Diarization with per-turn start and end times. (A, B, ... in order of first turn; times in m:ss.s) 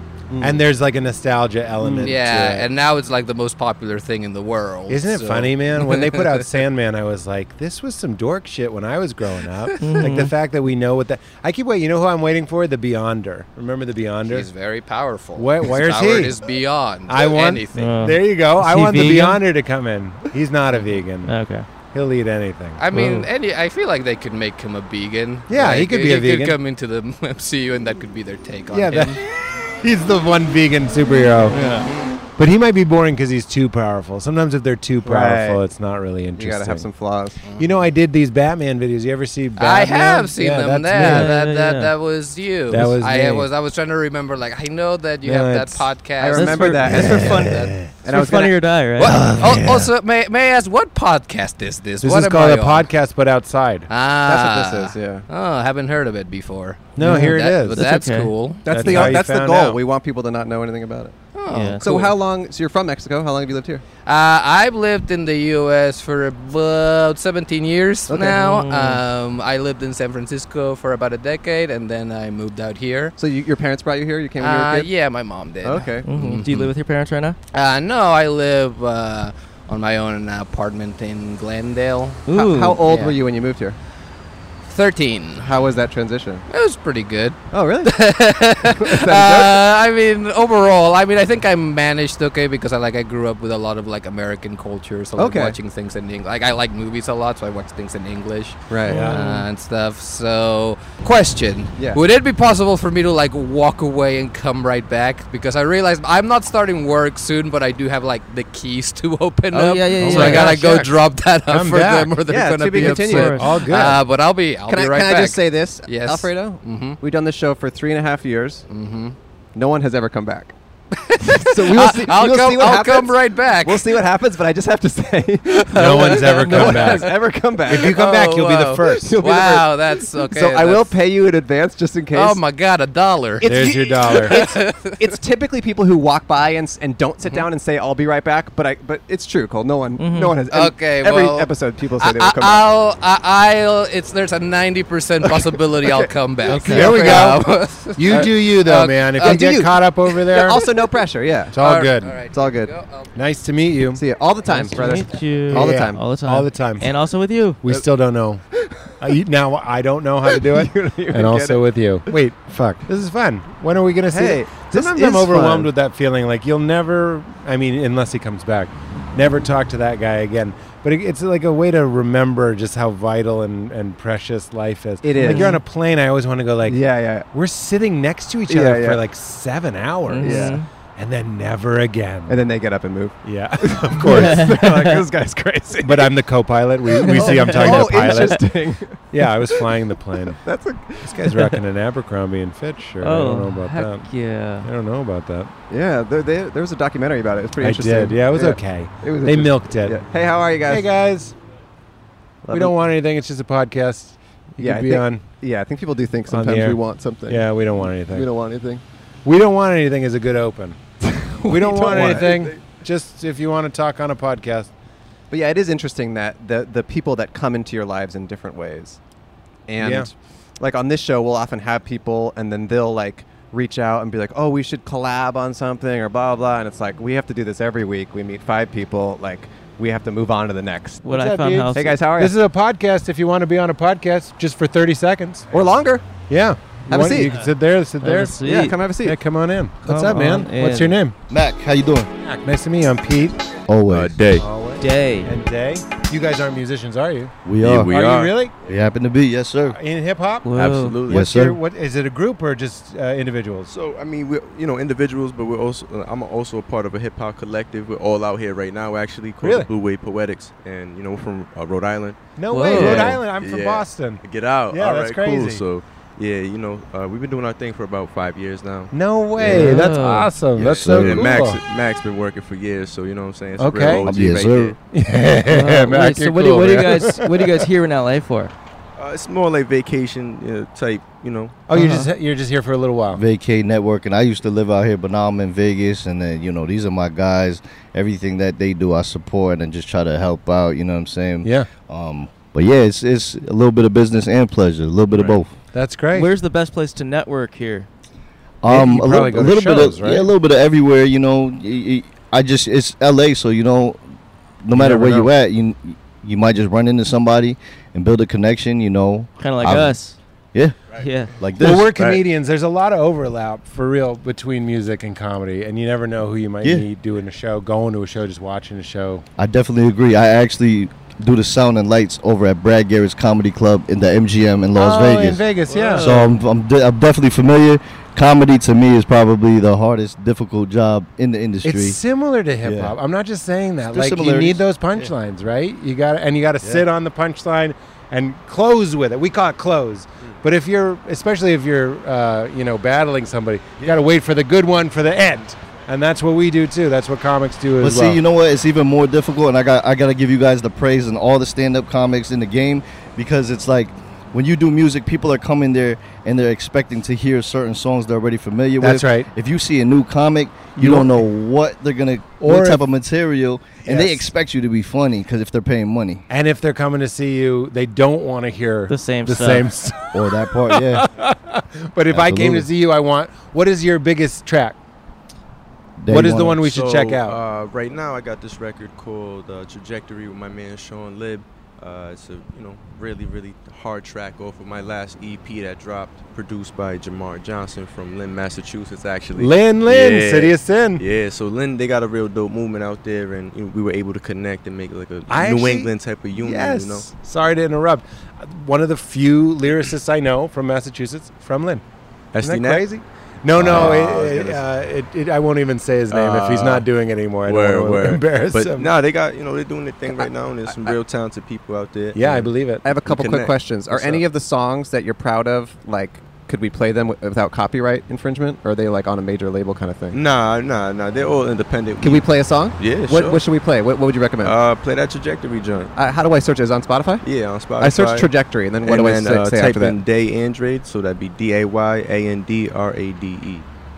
0:00.3-0:00.6 A
0:00.4-0:02.7 B
0:01.8-0:02.1 A
0:02.0-0:06.5 C
0:04.9-0:14.5 B
0:09.8-0:10.3 D
0:14.3-0:18.0 C
0:15.4-0:16.4 B
0:17.1-0:21.4 B
0:17.7-0:19.4 D
0:21.2-0:21.6 D
0:21.9-0:22.9 B
0:22.8-0:29.2 C
0:22.9-0:23.3 D
0:25.5-0:26.6 B
0:28.7-0:29.2 B
0:29.8-0:31.6 B
0:31.5-0:31.9 D
0:32.4-0:36.9 B
0:35.0-0:35.6 A
0:36.4-0:37.4 A
0:37.4-0:37.7 C
0:37.6-0:41.3 B
0:39.6-0:46.8 C
0:41.0-0:41.9 D
0:42.7-0:43.5 B
0:45.2-0:45.8 B
0:46.2-0:48.6 A
0:46.3-0:47.4 D
0:46.8-0:47.9 B
0:48.0-0:49.2 D
0:49.0-0:49.9 B
0:49.4-0:52.9 C
0:52.0-0:53.9 B
0:53.9-0:59.0 C
0:54.2-0:55.2 A
0:57.0-0:57.8 B
0:57.0-0:58.3 D
0:58.6-1:01.2 A
0:58.7-0:59.8 B
1:01.3-1:02.1 C
1:01.5-1:01.8 D
1:01.8-1:03.8 A
1:04.0-1:13.1 C
1:08.1-1:08.4 A
1:08.3-1:09.0 D
1:13.2-1:14.9 A
1:14.4-1:16.7 C
1:15.6-1:16.1 A
1:16.0-1:17.4 D
1:17.5-1:22.2 C
1:22.3-1:23.1 D
1:22.3-1:23.8 A
1:24.7-1:25.4 C
1:25.4-1:26.4 A
1:26.5-1:57.0 C
1:27.5-1:28.0 A
1:28.6-1:29.6 A
1:35.2-1:35.6 A
1:38.7-1:39.1 A
1:38.9-1:39.3 B
1:38.9-1:39.4 D
1:49.5-1:50.5 D
1:50.0-1:50.6 B
1:50.0-1:50.9 A
1:51.5-1:52.1 B
1:52.3-1:53.9 A
1:52.8-1:53.5 D
1:53.2-1:54.0 B
1:54.7-1:58.6 A
1:58.7-1:59.2 C
1:59.5-2:00.5 A
2:01.1-2:04.0 C
2:01.2-2:08.0 A
2:05.7-2:07.1 B
2:05.8-2:07.1 C
2:07.6-2:11.0 C
2:07.7-2:09.2 B
2:08.8-2:12.4 A
2:12.1-2:15.1 C
2:13.4-2:22.6 A
2:13.4-2:14.4 B
2:20.0-2:20.4 D
2:20.5-2:29.6 C
2:25.2-2:27.3 A
2:26.7-2:30.6 B
2:29.2-2:31.6 A
2:31.5-2:32.2 B
2:31.6-2:33.2 C
2:32.3-2:32.7 A
2:33.2-2:34.8 B
2:34.0-2:36.0 A
2:34.8-2:37.6 D
2:35.5-2:36.9 B
2:37.6-2:38.4 B
2:38.5-2:39.1 A
2:39.0-3:02.4 B
2:40.2-2:42.2 A
2:44.1-2:45.7 A
2:55.0-2:55.6 A
2:55.2-2:55.6 D
2:56.6-2:57.3 A
2:58.5-2:59.0 A
3:00.1-3:00.6 D
3:00.2-3:00.6 A
3:02.3-3:06.1 A
3:03.2-3:04.7 B
3:05.8-3:08.5 B
3:07.0-3:11.4 A
3:07.1-3:08.3 D
3:09.1-3:10.4 B
3:11.0-3:14.1 B
3:13.0-3:14.7 D
3:14.6-3:15.5 B
3:15.7-3:20.8 A
3:17.6-3:20.0 B
3:20.6-3:21.3 B
3:22.4-3:22.8 A
3:22.5-3:25.2 B
3:24.6-3:28.8 A
3:26.3-3:28.3 B
3:29.2-3:30.8 B
3:31.0-3:32.5 A
3:31.4-3:34.7 B
3:32.0-3:32.3 E
3:35.3-3:39.0 A
3:39.7-3:51.0 A
3:39.8-3:40.1 B
3:51.0-3:52.0 D
3:51.0-3:55.5 B
3:51.7-3:52.4 A
3:55.5-3:56.0 A
3:56.3-3:58.5 B
3:56.9-3:57.4 A
3:58.0-3:58.8 D
3:58.4-3:59.2 A
3:59.0-4:01.2 B
3:59.8-4:01.0 D
4:01.3-4:02.1 F
4:02.2-4:03.4 B
4:03.7-4:04.2 F
4:03.9-4:04.4 E
4:04.4-4:07.3 B
4:04.8-4:05.3 D
4:07.4-4:08.0 F
4:07.6-4:08.8 E
4:07.9-4:08.5 B
4:08.6-4:09.8 F
4:09.7-4:10.5 B
4:10.4-4:11.0 D
4:10.5-4:11.3 E
4:11.1-4:11.6 F
4:11.1-4:13.7 B
4:13.7-4:29.7 E
4:19.4-4:19.7 B
4:22.4-4:25.6 B
4:22.5-4:23.1 D
4:28.9-4:31.6 B
4:29.4-4:30.3 D
4:30.6-4:34.8 E
4:30.6-4:31.3 F
4:33.6-4:34.1 B
4:34.0-4:34.8 F
4:34.9-4:37.6 B
4:35.5-4:38.5 D
4:39.0-4:41.6 E
4:41.7-4:43.2 B
4:41.7-4:42.1 D
4:43.1-4:55.5 F
4:51.4-4:51.7 B
4:55.7-4:56.3 B
4:56.1-4:57.9 D
4:58.6-5:04.0 F
4:58.6-5:00.3 B
5:04.6-5:10.0 F
5:04.7-5:05.3 B
5:09.4-5:10.2 D
5:10.9-5:11.3 D
5:11.4-5:11.9 F
5:11.6-5:19.2 B
5:11.9-5:12.2 E
5:19.4-5:25.5 F
5:24.8-5:26.3 B
5:25.7-5:26.2 D
5:26.0-5:32.0 F
5:31.6-5:48.2 B
5:32.6-5:32.9 F
5:33.9-5:35.1 F
5:47.8-6:06.2 F
5:58.8-5:59.3 B
6:00.8-6:01.2 B
6:02.4-6:02.8 B
6:03.8-6:04.3 B
6:06.3-6:14.8 B
6:08.9-6:09.7 D
6:10.1-6:11.1 F
6:12.1-6:12.7 F
6:16.0-6:16.7 F
6:16.1-6:17.4 B
6:16.6-6:37.1 E
6:29.4-6:31.0 B
6:35.3-6:41.8 B
6:42.3-6:42.9 E
6:42.4-6:48.9 B
6:43.5-6:44.6 E
6:46.1-6:46.8 E
6:47.4-6:52.5 E
6:52.1-6:52.8 B
6:52.8-7:00.2 A
6:53.0-6:54.2 E
7:00.1-7:03.4 E
7:02.0-7:04.6 A
7:04.4-7:05.9 E
7:06.0-7:07.2 A
7:07.2-7:08.3 E
7:07.8-7:10.0 A
7:08.8-7:13.6 E